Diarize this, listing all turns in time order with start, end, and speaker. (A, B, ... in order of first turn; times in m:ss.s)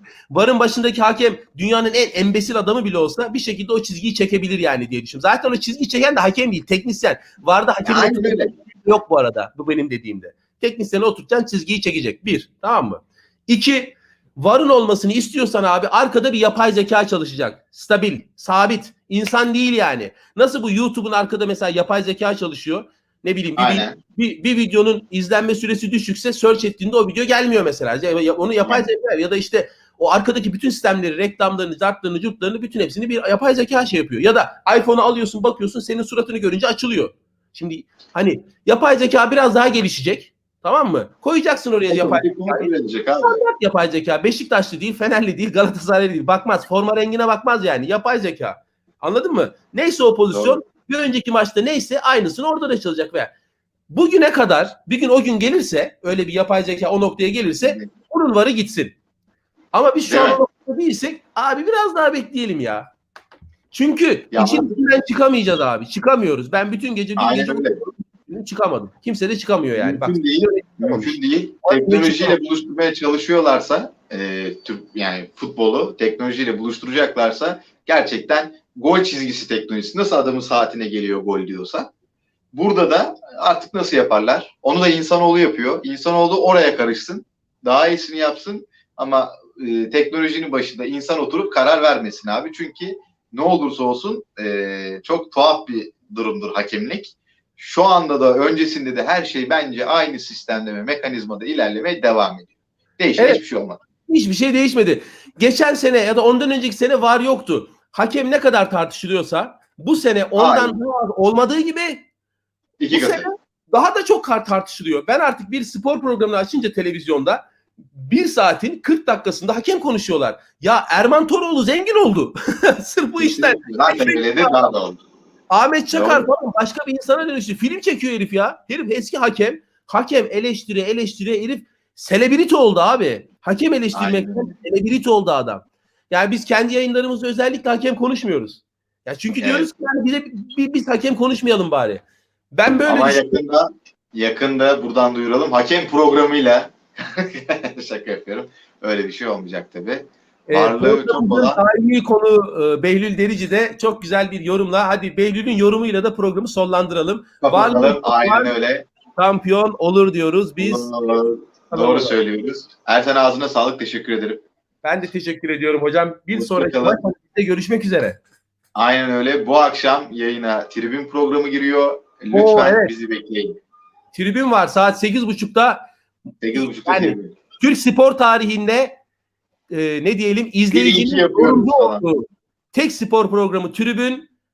0:00.3-0:53.3 A
0:07.8-0:08.5 B
0:23.6-0:24.0 B
0:28.6-0:28.9 B
0:41.9-0:43.4 B
0:50.3-0:50.6 B
0:53.9-0:58.9 A
0:57.6-0:57.9 B
0:59.7-1:02.9 A
1:00.1-1:00.4 B
1:03.7-1:12.4 A
1:04.3-1:04.8 B
1:07.2-1:07.8 B
1:09.8-1:21.9 B
1:22.5-1:43.8 B
1:43.2-1:43.4 A
1:44.1-1:52.0 A
1:50.4-1:50.8 B
1:52.8-1:53.2 B
1:52.9-2:04.7 A
2:03.2-2:05.0 B
2:05.5-2:23.4 A
2:05.9-2:06.3 B
2:13.9-2:14.5 B
2:19.4-2:19.7 B
2:22.9-2:31.6 B
2:30.5-2:38.6 A
2:37.4-2:38.9 B
2:39.2-2:41.1 A
2:40.6-2:44.4 B
2:41.7-2:42.2 A
2:44.8-2:48.2 A
2:46.3-2:47.0 B
2:48.8-2:53.6 B
2:52.3-2:52.9 A
2:54.1-2:55.9 A
2:56.4-2:57.4 B
2:56.6-2:59.0 A
2:59.7-3:04.3 A
3:00.7-3:02.0 B